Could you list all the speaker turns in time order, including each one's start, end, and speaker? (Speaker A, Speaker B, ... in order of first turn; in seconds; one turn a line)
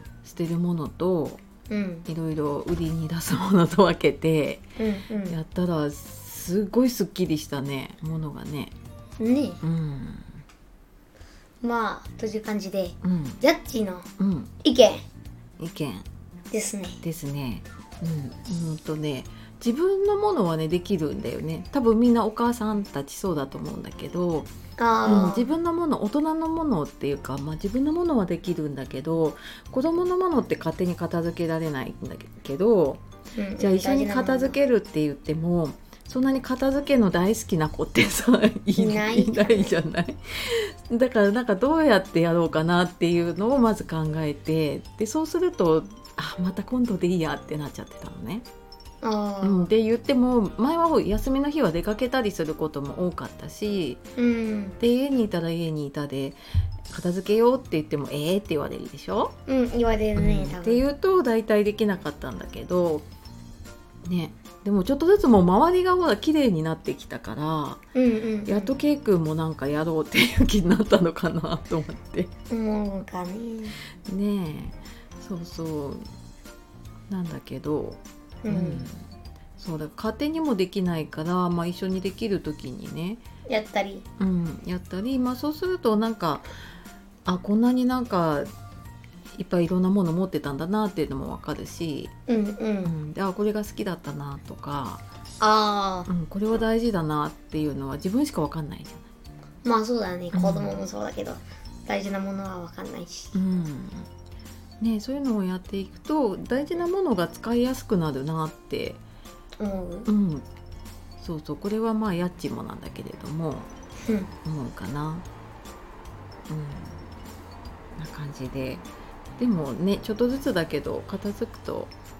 Speaker A: 0.2-1.4
Speaker B: 1.7-2.0
Speaker A: 2.0-4.7
Speaker B: 4.8-5.4
Speaker A: 5.3-8.7
Speaker B: 9.2-9.6
Speaker A: 9.6-10.4
Speaker B: 11.6-14.1
Speaker A: 13.0-13.4
Speaker A: 14.2-14.5
Speaker B: 14.6-15.0
Speaker A: 15.6-16.1
Speaker B: 16.5-17.0
Speaker A: 17.0-24.5
Speaker B: 24.8-25.5
Speaker A: 25.1-33.0
Speaker B: 33.3-34.6
Speaker A: 33.6-48.4
Speaker B: 38.8-39.8
Speaker B: 49.0-49.7
Speaker A: 49.4-54.0
Speaker B: 54.2-54.8
Speaker A: 54.8-56.4
Speaker A: 56.9-59.3
Speaker B: 59.5-60.8
Speaker A: 60.1-63.1
Speaker A: 64.0-67.8
Speaker B: 67.9-68.7
Speaker A: 68.5-72.3
Speaker B: 72.5-73.8
Speaker A: 74.0-76.0
Speaker A: 77.1-79.0
Speaker B: 78.4-78.8
Speaker A: 79.6-83.2
Speaker B: 83.5-84.0
Speaker A: 84.2-86.5
Speaker A: 87.2-88.5
Speaker A: 89.3-92.1
Speaker B: 92.3-92.9
Speaker A: 92.8-95.0
Speaker B: 95.4-96.1
Speaker A: 96.1-99.1
Speaker B: 99.6-103.3
Speaker A: 100.3-100.8
Speaker A: 103.3-104.1
Speaker A: 104.8-109.0
Speaker B: 109.6-110.1
Speaker A: 110.0-110.5
Speaker A: 111.2-113.7
Speaker B: 114.0-114.3
Speaker A: 114.4-115.2
Speaker A: 116.5-117.0
Speaker A: 118.0-118.9
Speaker A: 119.4-121.9